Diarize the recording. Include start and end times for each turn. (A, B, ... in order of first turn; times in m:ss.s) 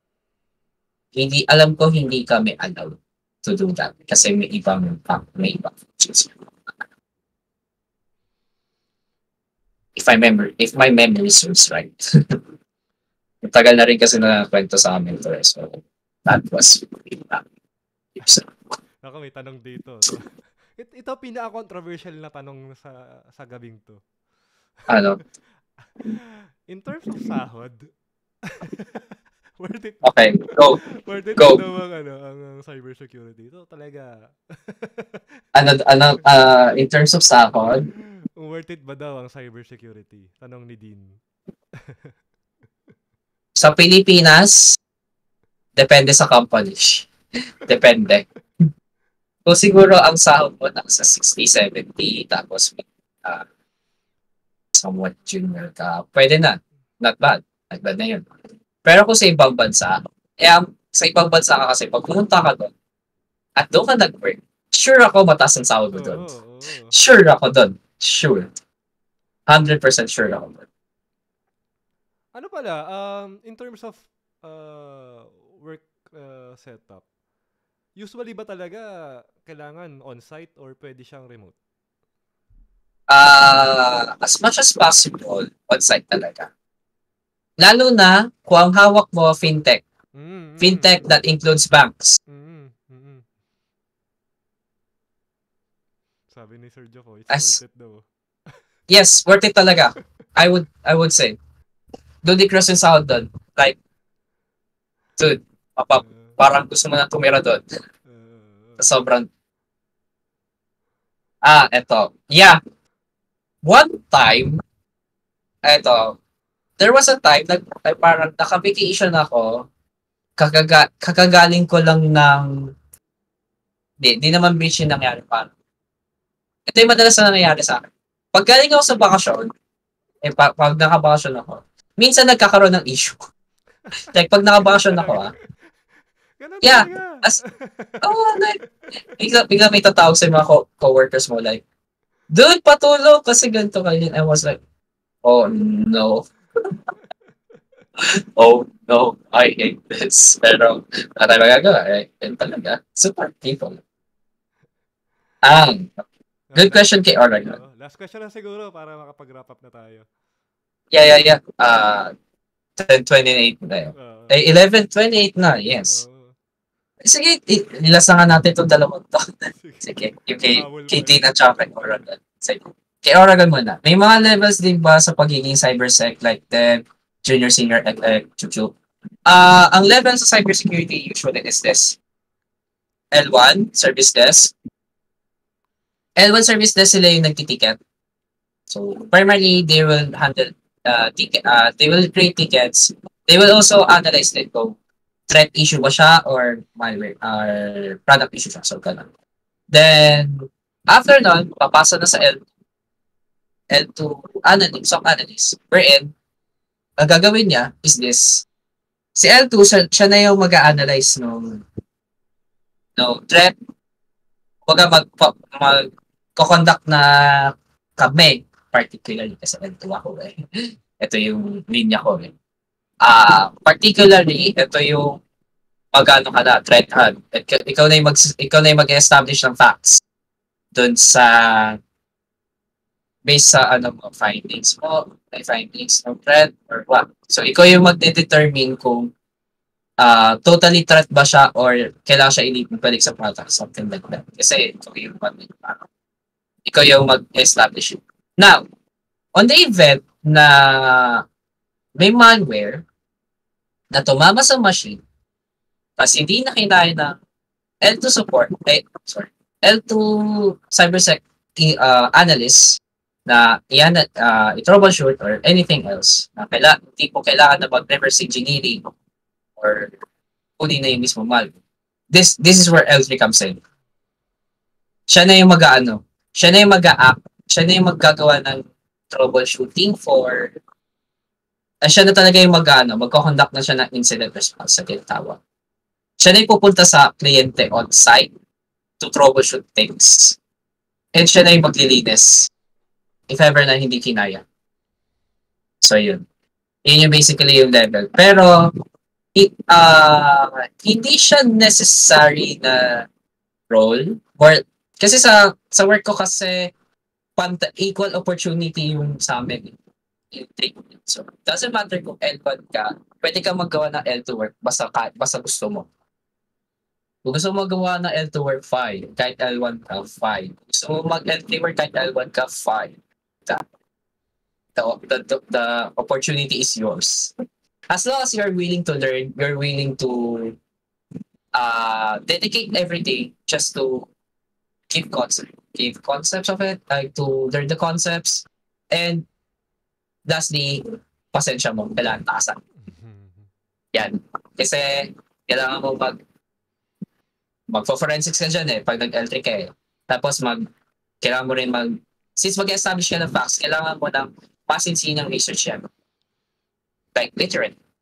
0:01.2-0:06.8 A
0:10.0-0:12.4 A
0:13.4-0:17.4 A
0:18.2-0:18.5 A
0:19.0-0:24.0 B
0:24.9-0:25.2 A
0:26.0-0:27.9 B
0:28.6-0:35.2 B
0:30.0-0:30.8 A
0:31.4-0:31.6 A
0:35.6-0:37.9 A
0:38.4-0:41.2 B
0:41.9-0:42.1 B
0:43.6-0:44.8 A
0:45.8-0:47.1 A
0:47.7-0:48.2 A
0:49.5-0:53.4 A
0:54.8-0:58.3 A
0:58.8-1:02.7 A
1:03.6-1:06.3 A
1:05.9-1:07.0 B
1:06.9-1:08.5 A
1:09.5-1:10.6 A
1:12.3-1:17.0 B
1:18.0-1:21.6 B
1:23.1-1:26.5 A
1:27.6-1:29.8 A
1:30.2-1:31.2 B
1:30.6-1:32.2 A
1:32.3-1:33.2 B
1:36.3-1:38.6 B
1:37.3-1:37.6 A
1:38.9-1:41.4 A
1:42.2-1:43.8 A
1:45.2-1:47.6 A
1:46.0-1:46.4 B
1:48.1-1:48.9 B
1:48.8-1:49.3 A
1:51.4-1:52.6 A
1:53.6-1:54.6 A
1:55.7-1:56.2 A
1:56.8-1:59.7 A
2:00.4-2:02.5 A
2:04.0-2:05.5 A
2:06.7-2:07.8 A
2:08.3-2:09.5 A
2:10.2-2:13.2 A
2:14.0-2:15.3 A
2:14.7-2:15.4 B
2:16.4-2:18.0 B
2:16.6-2:17.4 A
2:18.0-2:18.6 A
2:19.2-2:21.6 A
2:22.3-2:24.6 A
2:25.2-2:26.3 A
2:28.0-2:33.8 A
2:35.4-2:37.6 A
2:36.5-2:40.1 B
2:40.9-2:42.1 A
2:42.8-2:46.0 A
2:43.9-2:44.4 B
2:45.9-2:46.4 B
2:47.0-2:49.2 A
2:49.6-2:52.0 B
2:49.8-2:58.7 A
2:59.3-3:02.0 A
3:03.1-3:04.5 A
3:06.2-3:07.8 A
3:08.7-3:14.8 A
3:15.3-3:19.1 A
3:19.7-3:22.4 A
3:23.7-3:26.1 A
3:27.0-3:28.4 A
3:29.2-3:31.6 A
3:33.0-3:33.5 A
3:34.7-3:35.8 A
3:36.4-3:40.4 A
3:41.0-3:42.3 A
3:43.0-3:45.2 A
3:45.9-3:50.0 A
3:50.7-3:51.8 A
3:53.2-3:59.1 A
4:00.0-4:05.8 A
4:06.7-4:08.6 A
4:09.4-4:11.2 A
4:12.0-4:12.8 A
4:13.9-4:15.0 A
4:16.0-4:17.2 A
4:17.8-4:28.8 A
4:29.6-4:29.9 A
4:30.6-4:31.5 A
4:32.1-4:33.6 A
4:35.1-4:40.5 A
4:41.8-4:45.4 A
4:46.2-4:48.3 A
4:49.0-4:50.4 A
4:51.1-4:52.5 A
4:53.3-4:54.4 A
4:55.8-4:56.2 A
4:56.8-4:58.7 A
4:59.4-5:03.1 A
5:03.7-5:06.7 A
5:07.4-5:09.8 A
5:10.3-5:15.9 A
5:17.2-5:22.9 A
5:24.8-5:27.3 A
5:27.9-5:30.6 A
5:31.6-5:34.1 A
5:34.9-5:39.2 A
5:40.2-5:42.6 A
5:42.8-5:43.5 B
5:43.9-5:46.2 A
5:47.7-5:50.6 A
5:51.2-5:55.8 A
5:57.2-5:57.8 A